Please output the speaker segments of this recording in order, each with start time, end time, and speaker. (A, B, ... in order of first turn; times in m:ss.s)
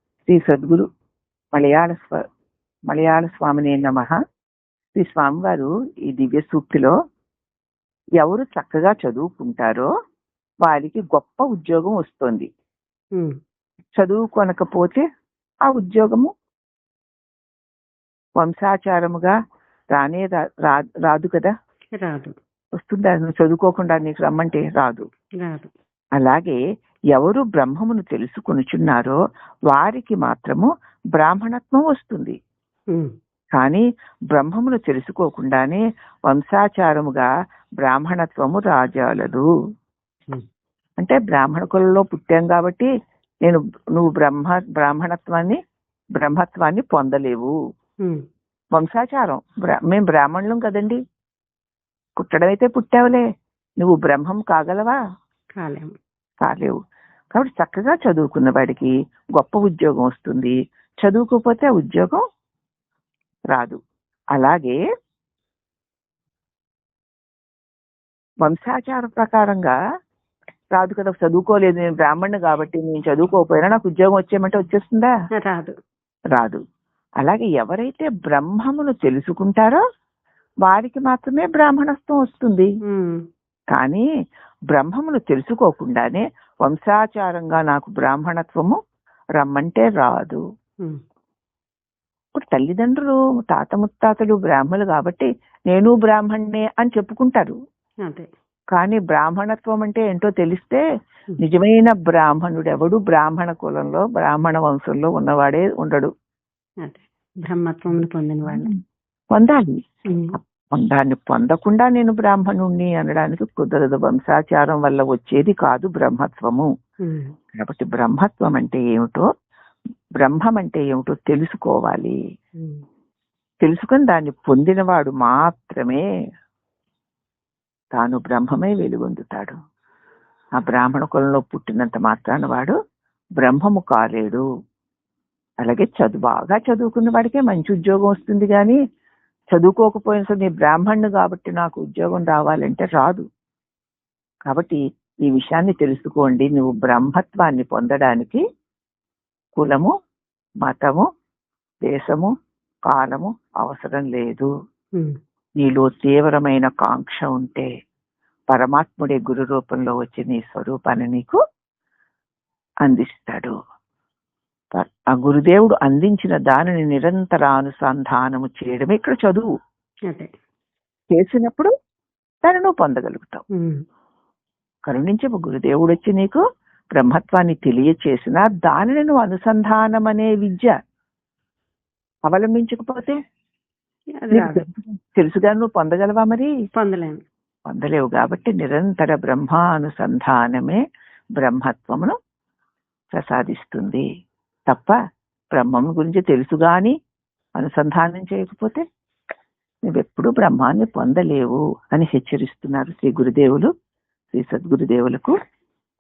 0:00.3-0:00.8 A
0:01.5-0:02.2 A
0:02.9-0:04.1 A
0:04.9-0:06.9 A
0:08.2-0:09.9 A
0:10.6-0:12.5 A
0:14.0-0:15.0 A
0:15.6-0:16.3 A
0:18.4-0:19.3 A
0:20.0-0:21.5 A
0:21.9-0:22.3 B
0:22.8-0:25.0 A
0:25.4-0:25.7 B
0:26.2-0:26.6 A
0:27.1-0:29.2 A
0:29.7-0:32.4 A
0:33.6-0:37.3 A
0:37.8-0:39.4 A
0:41.0-0:42.9 A
0:43.4-0:45.6 A
0:46.2-0:47.5 A
0:48.8-0:51.0 A
0:52.2-0:53.2 A
0:53.8-0:55.0 A
0:55.6-0:55.9 B
0:56.4-0:56.8 A
0:57.3-1:02.2 A
1:03.5-1:03.8 A
1:04.3-1:04.8 A
1:08.4-1:09.7 A
1:10.7-1:15.1 A
1:15.4-1:15.7 B
1:17.2-1:19.8 A
1:20.6-1:22.7 A
1:22.8-1:23.2 B
1:23.7-1:24.0 A
1:24.7-1:28.8 A
1:29.4-1:30.4 A
1:32.3-1:37.6 A
1:38.7-1:40.8 A
1:41.4-1:46.1 A
1:46.8-1:48.7 B
1:49.3-1:49.7 A
1:50.1-1:50.3 B
1:50.7-1:56.7 A
1:57.0-1:57.3 B
1:57.5-1:59.2 A
2:00.2-2:02.2 A
2:03.6-2:06.0 A
2:07.9-2:09.5 A
2:10.6-2:12.7 A
2:13.4-2:14.4 A
2:15.6-2:18.8 A
2:19.5-2:23.2 A
2:24.5-2:28.4 A
2:29.6-2:29.9 A
2:30.6-2:31.0 A
2:31.8-2:32.3 A
2:32.9-2:34.5 A
2:35.6-2:37.7 A
2:38.5-2:41.4 A
2:42.8-2:43.5 A
2:44.7-2:49.4 A
2:51.1-2:51.7 A
2:52.4-2:53.4 A
2:54.9-2:56.4 A
2:57.0-3:00.7 A
3:02.3-3:03.2 A
3:04.2-3:04.6 B
3:04.3-3:06.5 A
3:06.8-3:07.2 B
3:07.7-3:10.8 A
3:11.4-3:12.2 A
3:13.1-3:14.0 A
3:14.7-3:15.0 A
3:15.6-3:16.9 A
3:17.6-3:18.8 A
3:19.9-3:23.7 A
3:24.3-3:25.3 A